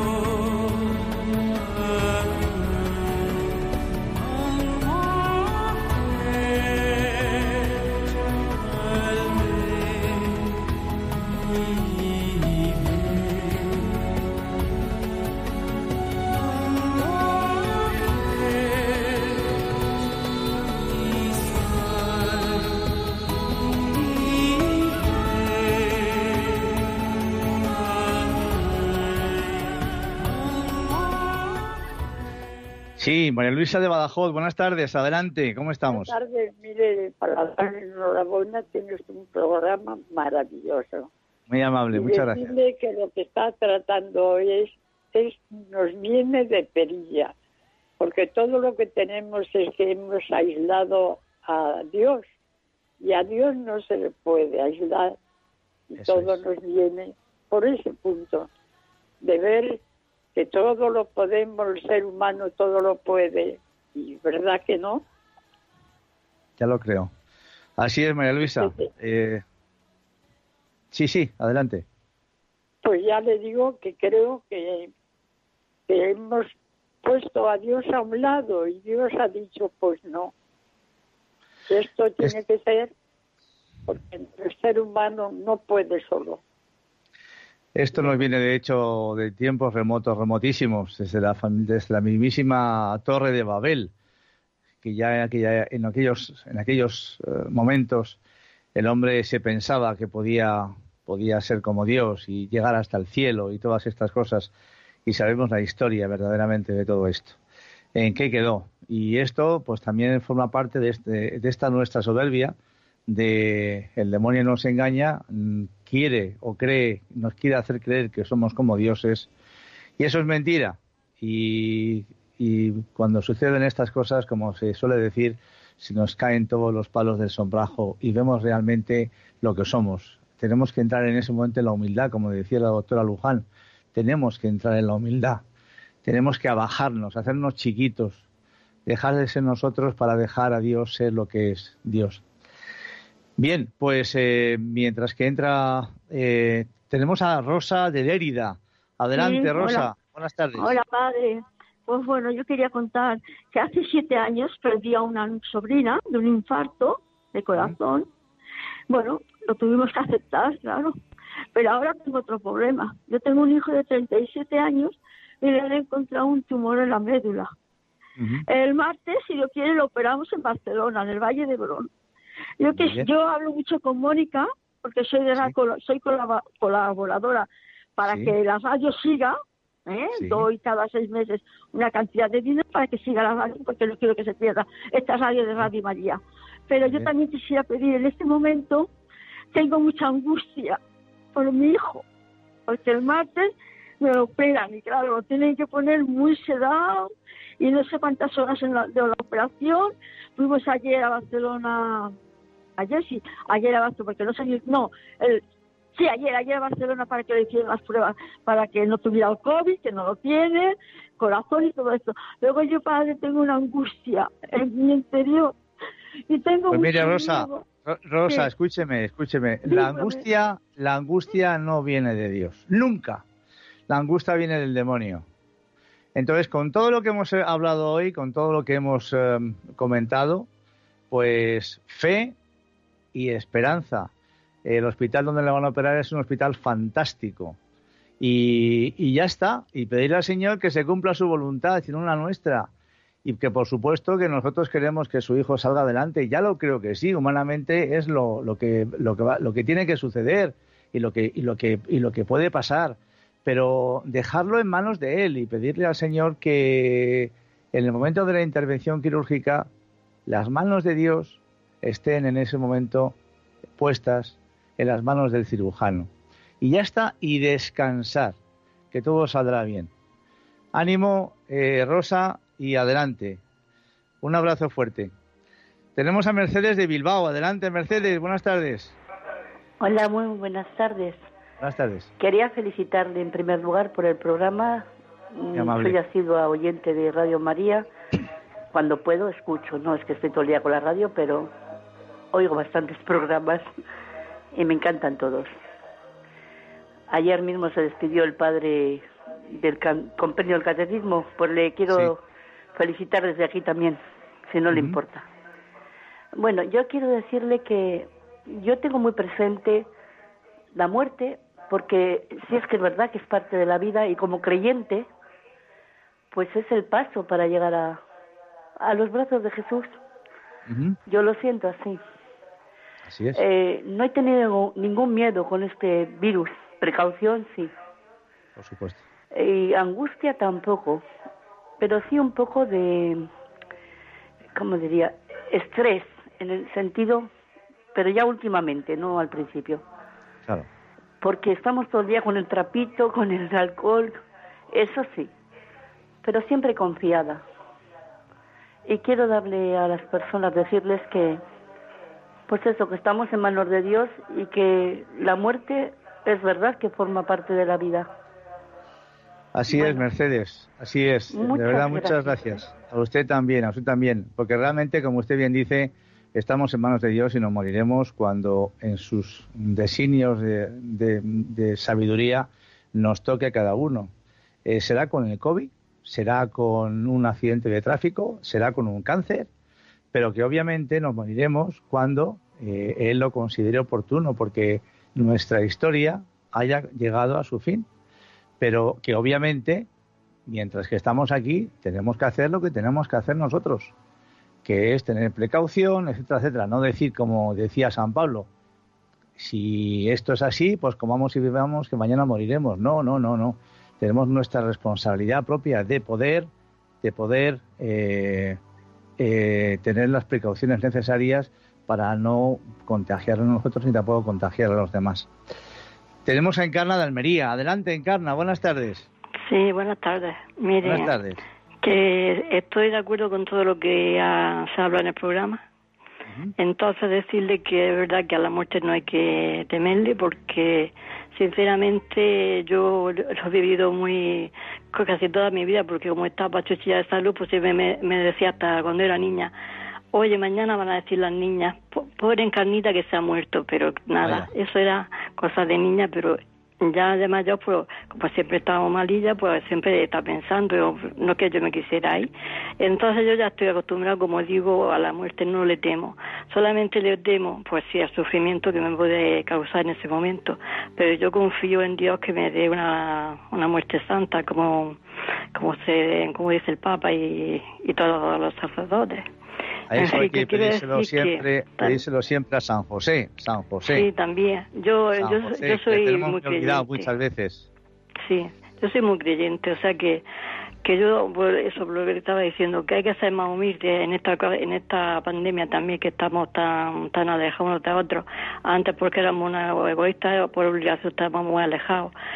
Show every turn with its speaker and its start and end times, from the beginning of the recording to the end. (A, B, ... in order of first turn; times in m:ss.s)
0:33.0-0:36.2 A
0:35.9-0:41.1 B
0:41.5-0:42.6 A
0:41.9-0:47.3 B
0:48.0-0:52.2 B
0:53.0-0:55.2 B
0:55.9-0:58.5 B
0:56.0-0:56.4 A
0:59.2-0:59.8 B
1:00.4-1:05.0 B
1:06.6-1:07.1 A
1:07.8-1:09.4 A
1:10.9-1:11.8 A
1:12.8-1:14.9 B
1:15.9-1:16.5 B
1:17.0-1:20.3 B
1:21.7-1:22.9 B
1:23.9-1:26.4 B
1:27.8-1:33.9 A
1:34.8-1:38.2 A
1:38.8-1:44.5 A
1:45.1-1:47.4 A
1:48.0-1:52.6 A
1:53.1-1:59.3 A
2:00.0-2:15.4 A
2:16.0-2:18.2 A
2:18.9-2:22.2 A
2:23.4-2:30.8 A
2:29.2-2:29.9 C
2:30.6-2:38.1 C
2:38.9-2:41.0 C
2:41.6-2:47.5 C
2:48.2-2:48.4 A
2:48.5-2:51.9 C
2:52.6-2:59.4 C
2:52.7-2:53.1 A
2:58.1-2:58.3 A
2:59.9-3:08.9 C
3:00.2-3:00.5 A
3:06.8-3:07.1 A
3:09.5-3:10.8 C
3:11.3-3:12.0 C
3:12.7-3:22.2 C
3:22.8-3:25.4 C
3:26.0-3:35.6 C
3:36.3-3:37.6 C
3:36.7-3:43.2 A
3:39.7-3:40.2 C
3:43.9-3:45.3 A
3:46.2-3:50.5 A
3:51.1-3:52.4 A
3:53.1-3:54.1 A
3:54.6-3:57.6 A
3:58.2-4:02.7 A
4:03.2-4:19.7 A
4:20.3-4:23.2 A
4:23.8-4:26.1 A
4:26.6-4:28.4 A
4:28.9-4:29.9 A
4:30.7-4:33.4 A
4:34.2-4:35.1 A
4:36.0-4:39.0 A
4:39.8-4:41.2 D
4:41.6-4:42.1 A
4:42.2-4:47.9 D
4:45.6-4:46.0 A
4:48.7-4:51.5 D
4:52.3-4:53.7 D
4:54.6-4:55.5 D
4:57.1-5:02.2 D
5:02.8-5:05.3 D
5:04.7-5:05.0 A
5:06.4-5:09.9 D
5:10.7-5:15.1 D
5:16.3-5:18.0 D
5:18.8-5:20.0 D
5:20.7-5:21.0 A
5:21.1-5:22.0 D
5:23.1-5:23.4 A
5:23.3-5:27.7 D
5:28.6-5:29.0 A
5:29.3-5:31.0 D
5:31.8-5:33.3 D
5:34.6-5:37.3 D
5:37.9-5:39.8 D
5:41.2-5:44.2 D
5:44.7-5:45.3 D
5:46.2-5:47.4 D
5:48.9-5:51.4 D
5:52.5-5:58.1 D
5:59.5-6:14.1 A
5:59.7-6:00.1 D
6:01.3-6:02.7 D
6:14.6-6:19.5 A
6:20.1-6:27.9 A
6:28.6-6:29.9 A
6:30.5-6:33.9 A
6:34.6-6:38.5 A
6:39.4-6:46.5 A
6:47.0-6:48.6 A
6:49.2-6:55.3 A
6:56.3-6:59.1 A
6:59.5-7:01.2 E
7:00.8-7:01.4 A
7:01.8-7:05.6 E
7:06.6-7:19.5 E
7:20.1-7:45.0 E
7:24.2-7:24.5 A
7:45.6-7:49.3 E
7:49.9-7:54.1 A
7:49.9-7:52.0 E
7:53.9-7:57.1 E
7:55.2-7:57.7 A
7:58.2-8:00.2 E
8:00.8-8:12.1 E